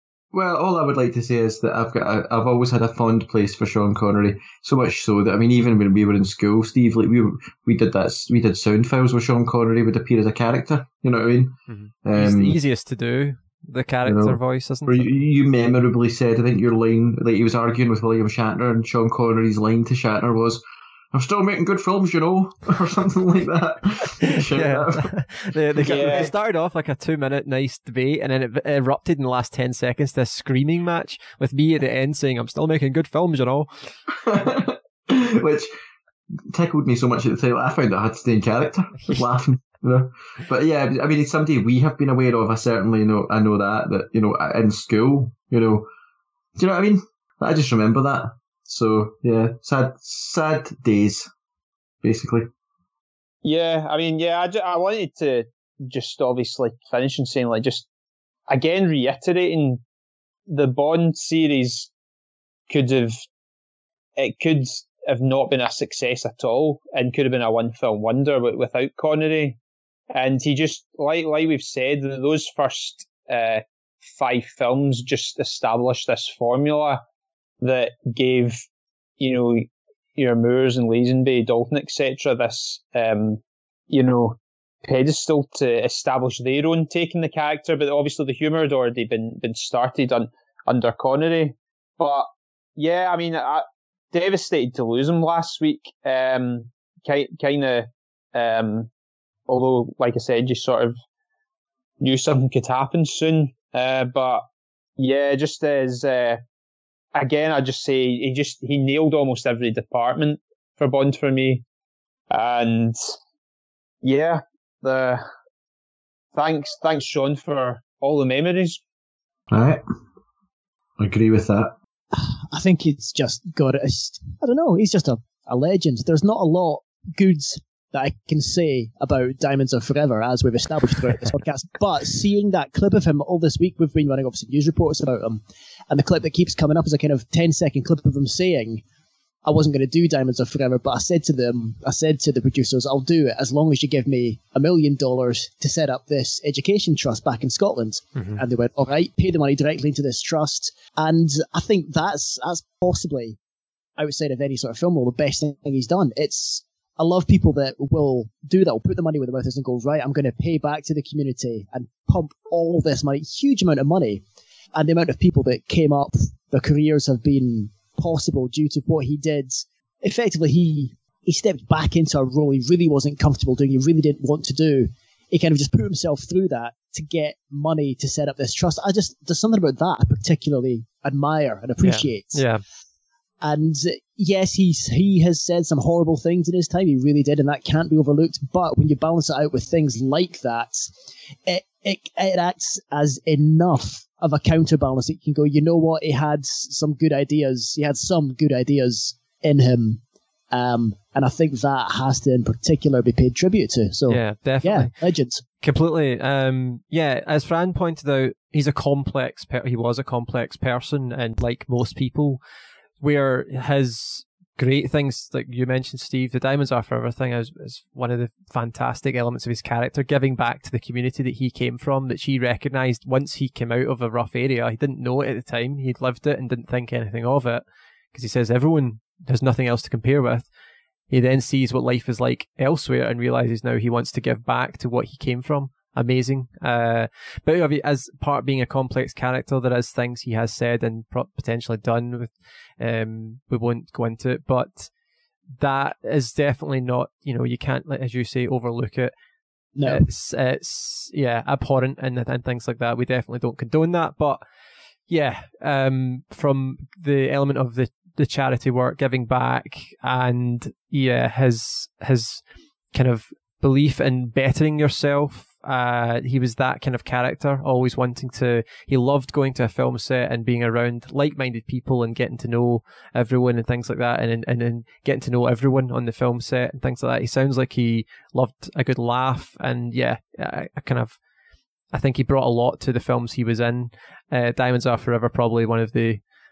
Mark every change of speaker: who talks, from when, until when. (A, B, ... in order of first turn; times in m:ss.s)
0:00.3-0:12.6 A
0:11.7-0:15.1 B
0:14.0-0:20.6 A
0:21.1-0:25.1 A
0:24.2-0:33.9 B
0:25.8-0:26.3 A
0:25.9-0:26.3 C
0:34.2-0:35.7 A
0:36.5-0:45.8 A
0:46.6-0:51.3 A
0:52.0-0:52.5 A
0:53.4-0:57.9 C
0:58.5-0:59.8 C
1:00.5-1:01.9 C
1:02.7-1:03.2 C
1:04.2-1:09.6 C
1:10.1-1:17.0 C
1:17.6-1:18.6 C
1:19.2-1:38.9 C
1:39.5-1:40.9 C
1:42.0-1:44.4 C
1:45.0-1:46.4 C
1:47.1-1:51.6 C
1:52.3-1:53.0 C
1:54.0-1:55.2 C
1:56.3-1:58.8 C
1:59.5-1:59.8 A
2:01.0-2:01.7 A
2:02.1-2:18.8 D
2:19.4-2:33.4 D
2:28.2-2:28.4 B
2:34.0-2:44.2 D
2:44.7-3:02.4 D
3:01.8-3:02.6 B
3:03.4-3:10.9 D
3:11.4-3:20.0 D
3:20.5-3:25.4 D
3:24.1-3:25.0 B
3:25.6-3:32.4 B
3:33.0-3:50.5 B
3:51.1-4:04.9 B
4:05.6-4:09.2 B
4:09.7-4:10.1 D
4:09.8-4:14.4 B
4:15.0-4:41.2 B
4:41.9-4:46.2 B